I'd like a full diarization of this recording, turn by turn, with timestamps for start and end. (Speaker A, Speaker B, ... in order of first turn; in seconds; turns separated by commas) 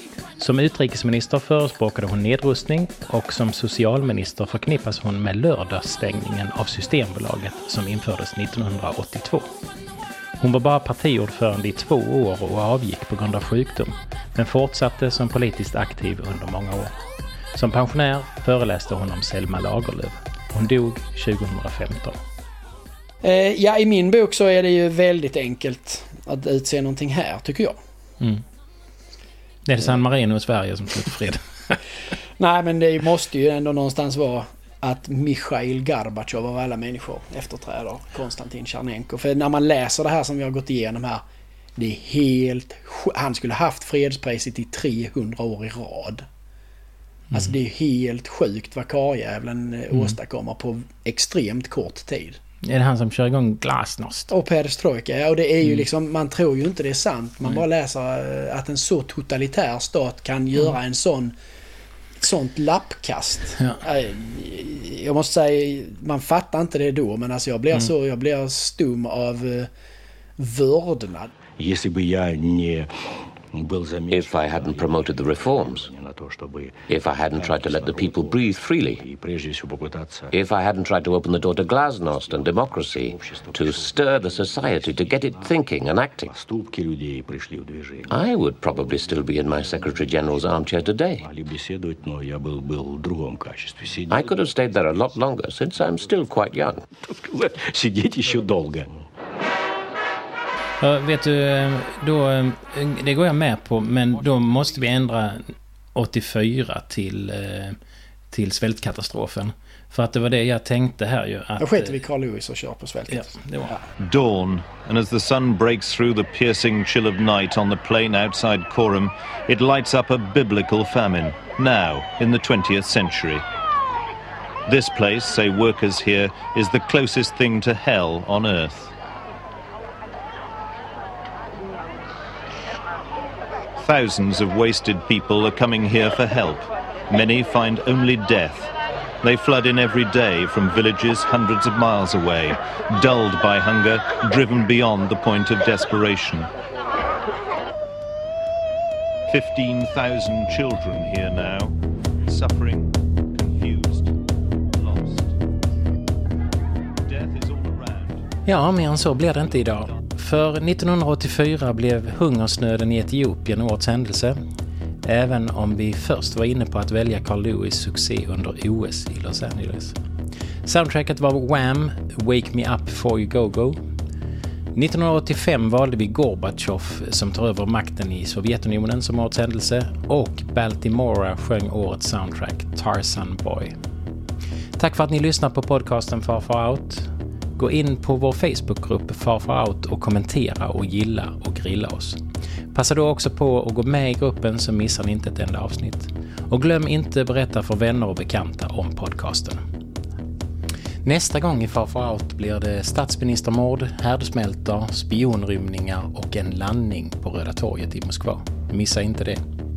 Speaker A: 0.4-9.5, Speaker A: 10.4-16.9, Speaker A: 17.5-22.2, Speaker B: 23.2-27.8, Speaker A: 29.6-31.8, Speaker B: 32.4-41.2, Speaker B: 41.8-46.2, Speaker B: 47.3-52.4, Speaker A: 52.6-54.3, Speaker B: 54.3-61.3, Speaker B: 62.2-69.7, Speaker B: 70.4-71.3, Speaker C: 71.6-80.4, Speaker D: 74.1-75.9, Speaker D: 76.9-79.0, Speaker D: 80.3-86.3, Speaker C: 82.0-85.6, Speaker C: 86.2-95.2, Speaker D: 88.1-91.2, Speaker D: 94.1-96.8, Speaker C: 95.8-96.2, Speaker C: 97.0-99.1, Speaker A: 100.8-107.8, Speaker A: 108.3-112.0, Speaker B: 111.6-113.8, Speaker A: 113.1-113.7, Speaker E: 114.0-123.4, Speaker E: 124.7-128.9, Speaker E: 133.8-138.7, Speaker E: 139.2-146.5, Speaker E: 149.3-154.1, Speaker E: 154.7-155.3, Speaker E: 157.0-158.2, Speaker A: 158.4-164.4, Speaker E: 159.3-160.0, Speaker A: 165.0-169.9, Speaker A: 170.6-173.8, Speaker A: 174.7-183.8, Speaker A: 184.8-192.2, Speaker A: 192.7-199.6, Speaker A: 201.0-209.4